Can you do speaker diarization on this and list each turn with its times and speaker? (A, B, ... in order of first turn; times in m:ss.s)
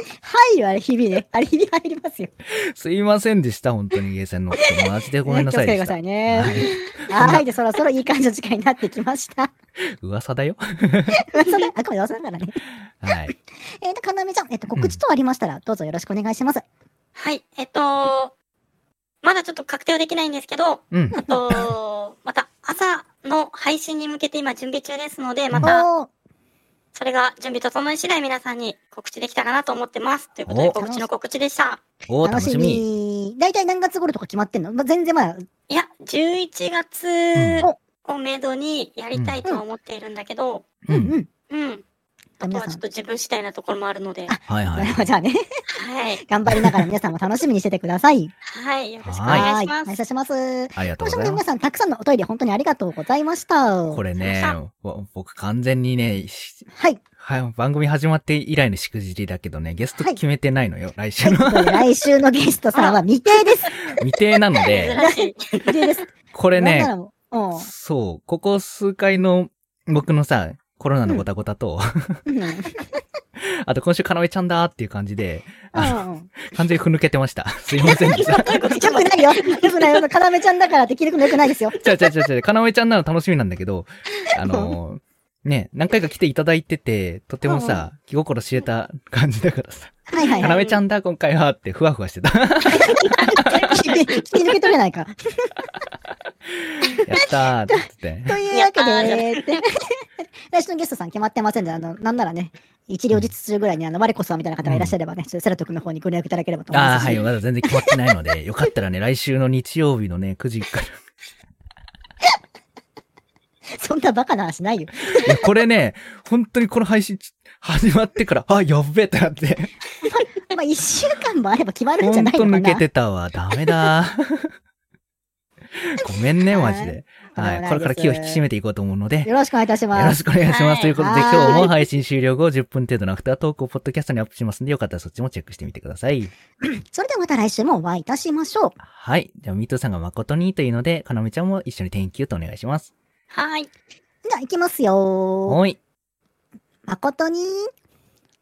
0:00.2-0:02.3 A
0:02.5-0:07.4 B
0:04.8-0:09.5 A
0:09.8-0:11.2 B
0:11.1-0:13.1 A
0:13.0-0:13.3 B
0:13.7-0:16.6 A
0:17.1-0:18.3 C
0:19.2-0:25.9 C
0:20.9-0:21.7 B
0:25.6-0:26.1 A
0:26.9-0:31.8 C
0:30.5-0:30.8 B
0:30.8-0:31.1 A
0:32.1-0:32.8 B
0:32.2-0:35.4 A
0:35.7-0:40.7 C
0:37.3-0:37.7 B
0:39.1-0:39.4 B
0:40.8-0:41.1 B
0:40.9-0:41.3 A
0:41.5-0:41.8 C
0:42.4-0:44.3 C
0:42.4-0:42.8 A
0:44.3-0:45.4 A
0:44.5-0:45.1 B
0:45.7-0:46.2 C
0:46.3-0:48.3 A
0:46.5-0:46.8 B
0:48.5-0:50.0 C
0:49.0-0:49.5 B
0:49.3-0:54.0 A
0:50.8-0:51.4 B
0:53.9-0:56.7 B
0:54.2-0:54.6 C
0:56.7-0:57.0 A
0:57.2-1:01.9 B
1:01.2-1:03.8 A
1:02.7-1:03.9 C
1:03.9-1:05.0 B
1:04.6-1:05.9 C
1:05.0-1:07.7 A
1:06.3-1:06.9 B
1:07.6-1:12.2 B
1:12.3-1:12.9 A
1:13.4-1:18.6 B
1:15.7-1:16.3 A
1:17.8-1:20.0 C
1:18.7-1:21.8 A
1:21.8-1:33.8 B
1:24.4-1:24.7 A
1:27.4-1:27.8 A
1:30.1-1:30.6 A
1:30.2-1:30.8 C
1:32.6-1:35.7 A
1:36.6-1:38.4 B
1:36.9-1:48.0 A
1:38.5-1:39.5 C
1:44.6-1:44.9 B
1:46.7-1:51.0 B
1:53.8-1:55.3 A
1:55.1-1:59.7 B
2:00.0-2:02.8 A
2:02.0-2:04.5 B
2:05.7-2:09.3 B
2:06.0-2:08.4 A
2:09.2-2:10.2 A
2:09.9-2:16.3 B
2:10.5-2:11.7 C
2:11.0-2:11.7 A
2:16.6-2:18.8 A
2:18.8-2:22.9 B
2:23.3-2:23.7 C
2:24.3-2:25.6 A
2:25.5-2:25.8 B
2:26.9-2:27.7 A